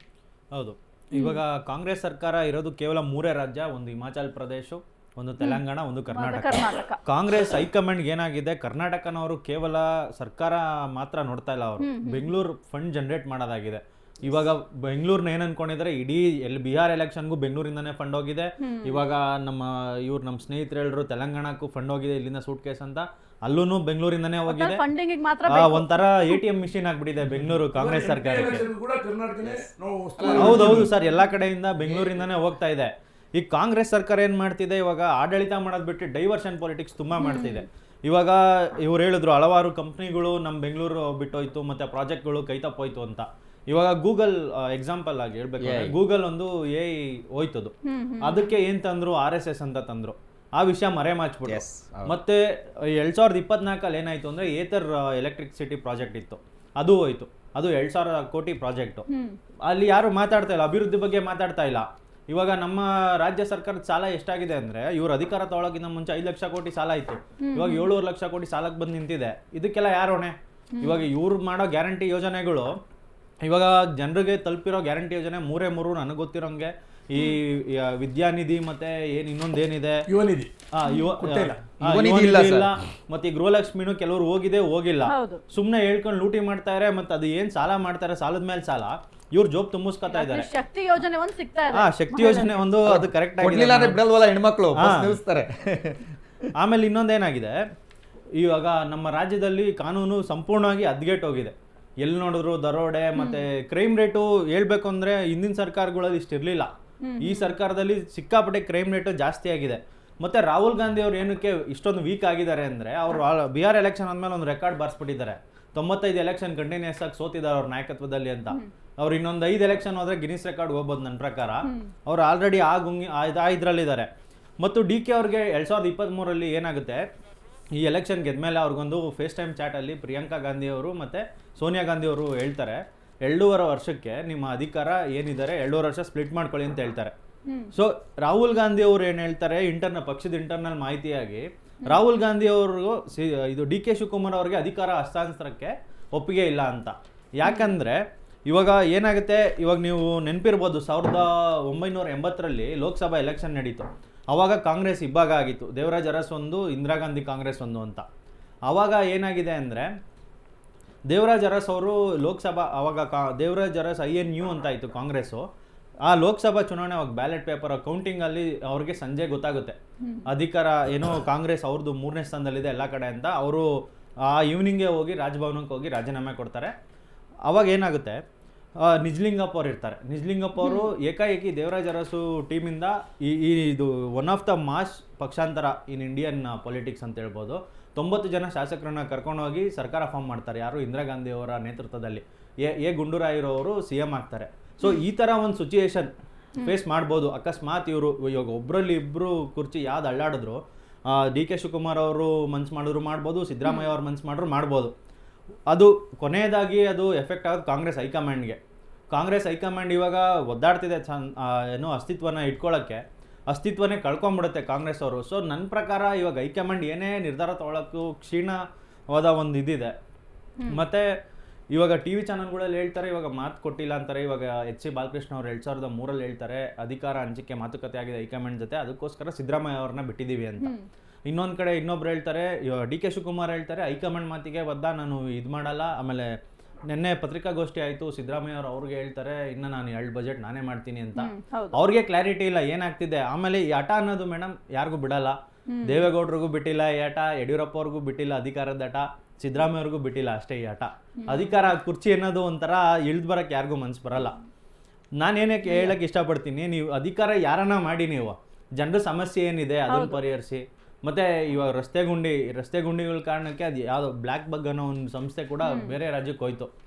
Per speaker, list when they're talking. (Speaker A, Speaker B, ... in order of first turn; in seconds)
Speaker A: 0.5-24.8, 25.5-28.6, 30.3-59.0, 59.7-72.7, 73.4-80.0, 80.7-90.5, 91.7-94.0, 94.7-95.2, 96.6-97.6, 98.4-106.7, 107.2-124.1, 124.6-127.0, 127.8-137.1, 137.7-158.0, 158.7-159.9, 161.1-165.4, 166.1-173.7, 174.3-176.7, 177.5-178.2, 178.8-196.1, 196.6-204.9, 205.7-208.6, 209.1-218.6, 219.1-219.9, 220.7-221.1, 221.7-230.7, 231.3-236.3, 236.9-254.3, 255.2-266.7
Speaker B: 1.1-1.4, 5.4-7.0, 11.8-12.3, 18.6-19.0, 24.5-26.4, 30.2-30.8, 37.2-37.6, 47.9-48.5, 59.1-59.4, 67.4-67.9, 70.7-71.0, 85.0-85.4, 90.1-92.6, 103.2-103.4, 107.0-107.6, 121.6-121.9, 147.4-147.7, 170.0-170.3, 180.6-180.9, 203.7-203.9, 230.6-230.8, 241.2-241.8, 245.7-246.1, 251.2-251.5, 255.7-255.9, 259.9-260.2, 265.6-265.9
Speaker C: 27.7-30.9, 80.1-80.5, 81.2-81.7
Speaker D: 45.6-45.9, 51.4-52.1, 81.8-82.8, 92.9-96.1